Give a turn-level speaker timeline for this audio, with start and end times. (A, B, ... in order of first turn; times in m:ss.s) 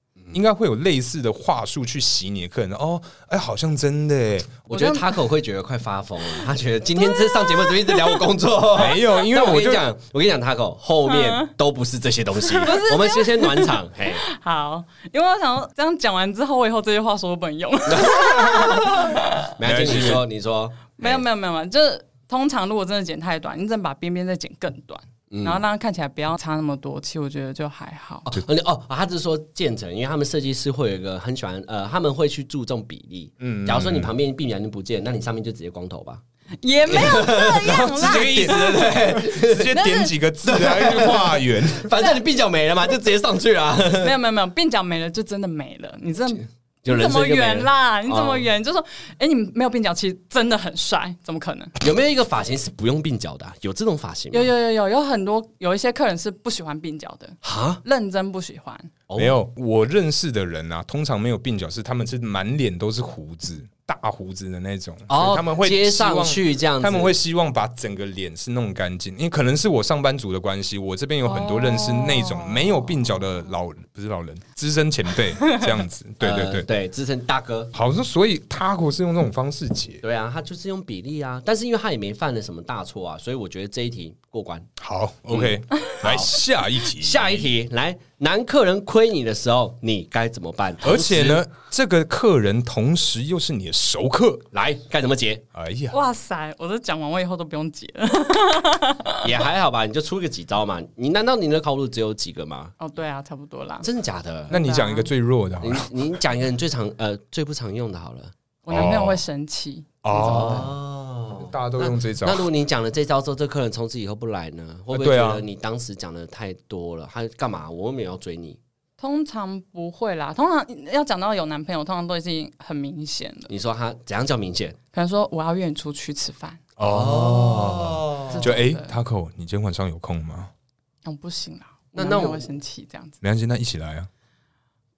0:00.3-0:04.7 A
0:04.7-0:14.2 B
0:04.7-0:05.0 C
0:07.0-0:08.2 C
0:08.8-0:09.9 A
0:11.1-0:11.5 C
0:12.5-0:19.5 C
0:17.9-0:21.2 B
0:19.6-0:20.2 A
0:21.0-0:28.3 C
0:25.3-0:25.6 B
0:28.3-0:36.2 B
0:33.4-0:34.1 A
0:36.6-0:38.8 C
0:36.9-0:39.8 B
0:37.6-0:41.9 A
0:39.7-0:40.1 C
0:40.4-0:44.1 B
0:44.0-0:51.7 C
0:46.8-0:48.5 B
0:51.8-0:54.5 B
0:54.3-0:58.9 C
0:57.4-0:57.8 B
0:59.1-0:59.4 B
0:59.2-1:16.7 A
1:05.1-1:07.2 B
1:11.2-1:12.9 C
1:16.2-1:17.7 B
1:17.7-1:20.0 A
1:20.0-1:24.7 B
1:24.8-1:27.5 A
1:25.3-1:26.4 B
1:26.9-1:31.4 B
1:30.8-1:34.4 A
1:34.5-1:35.4 B
1:35.5-1:36.0 A
1:35.9-1:39.3 C
1:39.2-1:42.7 B
1:42.8-1:43.9 C
1:43.8-1:44.5 B
1:44.5-1:45.1 C
1:44.5-1:45.9 A
1:45.6-1:48.3 B
1:48.6-1:50.7 C
1:48.7-1:49.2 A
1:50.0-1:50.7 A
1:50.1-1:58.6 B
1:51.4-1:52.5 A
1:54.9-1:55.4 A
1:59.0-2:03.5 C
2:03.5-2:04.8 B
2:04.9-2:06.6 C
2:06.8-2:10.5 A
2:06.8-2:08.5 B
2:08.3-2:08.9 C
2:11.0-2:13.2 C
2:12.0-2:12.5 B
2:13.2-2:14.1 A